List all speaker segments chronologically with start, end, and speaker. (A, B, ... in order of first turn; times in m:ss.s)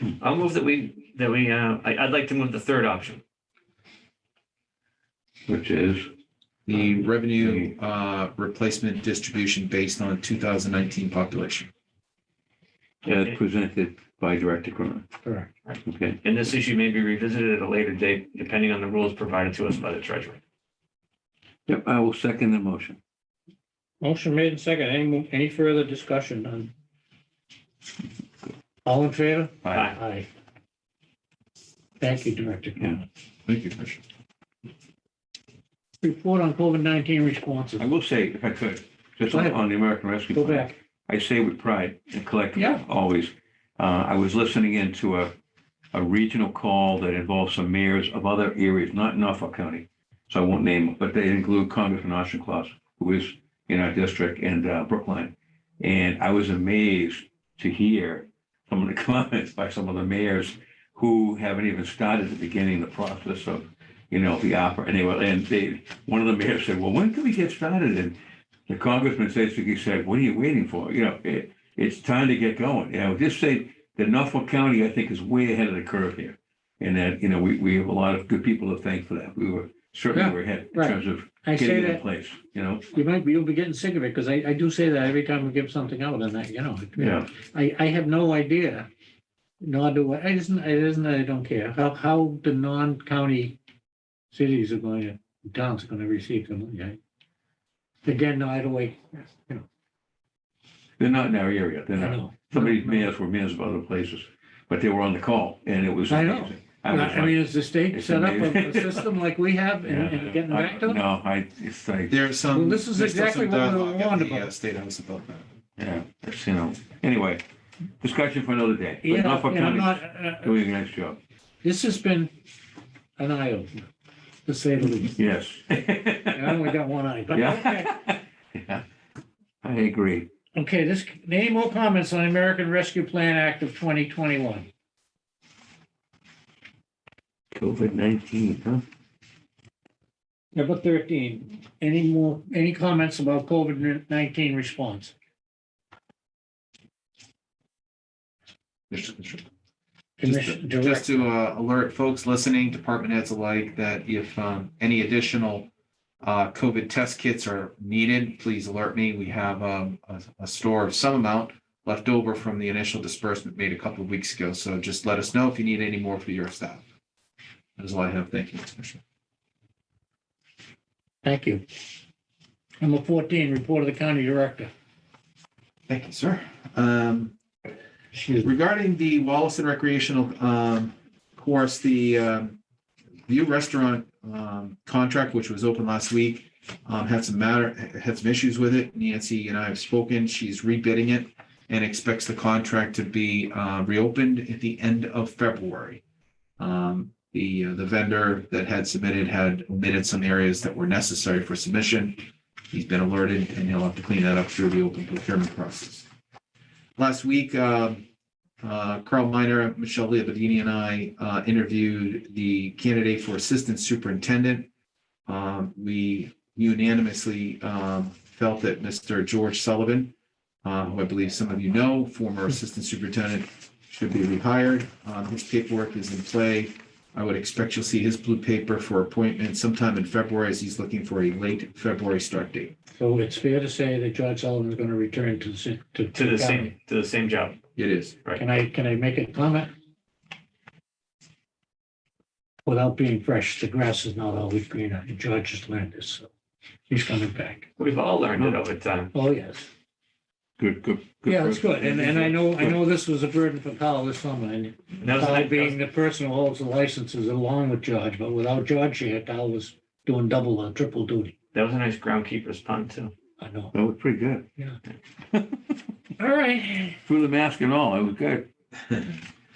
0:00.2-0:03.2 A
0:05.5-0:06.1 B
0:06.7-0:11.7 C
0:07.4-0:07.7 B
0:13.0-0:13.4 A
0:13.0-0:15.1 B
0:15.2-0:15.5 D
0:15.7-0:20.4 A
0:15.8-0:16.2 B
0:21.7-0:23.0 B
0:24.0-0:26.7 D
0:28.8-0:30.3 D
0:29.6-0:29.9 B
0:29.7-0:30.0 A
0:32.0-0:33.0 D
0:33.5-0:34.0 C
0:36.0-0:37.9 D
0:37.8-0:45.3 B
0:39.3-0:40.7 D
0:42.6-0:42.8 D
0:45.9-1:08.2 B
1:08.7-1:22.8 B
1:20.1-1:22.0 D
1:22.9-1:28.9 D
1:27.0-1:27.3 B
1:29.6-1:33.6 D
1:34.3-1:37.0 D
1:38.0-1:39.7 D
1:41.0-1:49.1 B
1:42.0-1:43.1 D
1:46.1-1:51.0 D
1:49.8-1:52.2 B
1:52.1-1:55.5 C
1:52.5-1:54.5 D
1:55.8-1:57.4 B
1:58.0-2:01.2 B
1:59.0-2:00.6 D
2:01.6-2:02.3 D
2:03.2-2:03.9 D
2:04.4-2:05.2 D
2:05.1-2:06.7 B
2:06.3-2:07.9 D
2:07.3-2:08.8 B
2:09.6-2:10.3 B
2:10.6-2:14.7 D
2:17.5-2:18.8 B
2:20.5-2:25.1 D
2:28.9-2:29.5 C
2:30.2-2:31.3 D
2:30.2-2:35.7 C
2:36.2-2:46.8 C
2:47.8-2:49.0 C
2:51.2-2:51.6 D
2:52.8-2:54.7 D
2:55.9-2:57.4 C
2:58.1-2:58.5 D
2:58.4-3:02.6 C
3:03.3-3:16.0 C
3:16.6-3:26.1 C
3:27.0-3:28.0 C
3:28.6-3:34.7 C
3:35.3-3:40.1 C
3:40.6-3:52.7 C
3:53.0-3:56.7 D
3:56.1-3:57.6 A
3:57.8-3:58.2 C
3:58.4-3:59.7 D
4:02.6-4:06.3 D
4:06.9-4:07.7 D
4:07.8-4:09.1 A
4:09.1-4:09.7 D
4:10.6-4:12.8 B
4:11.3-4:21.4 D
4:15.0-4:15.8 A
4:21.5-4:23.1 A
4:23.4-4:23.7 D
4:23.7-4:24.4 B
4:25.3-4:25.6 B
4:26.2-4:27.0 D
4:27.0-4:28.5 B
4:28.9-4:29.2 C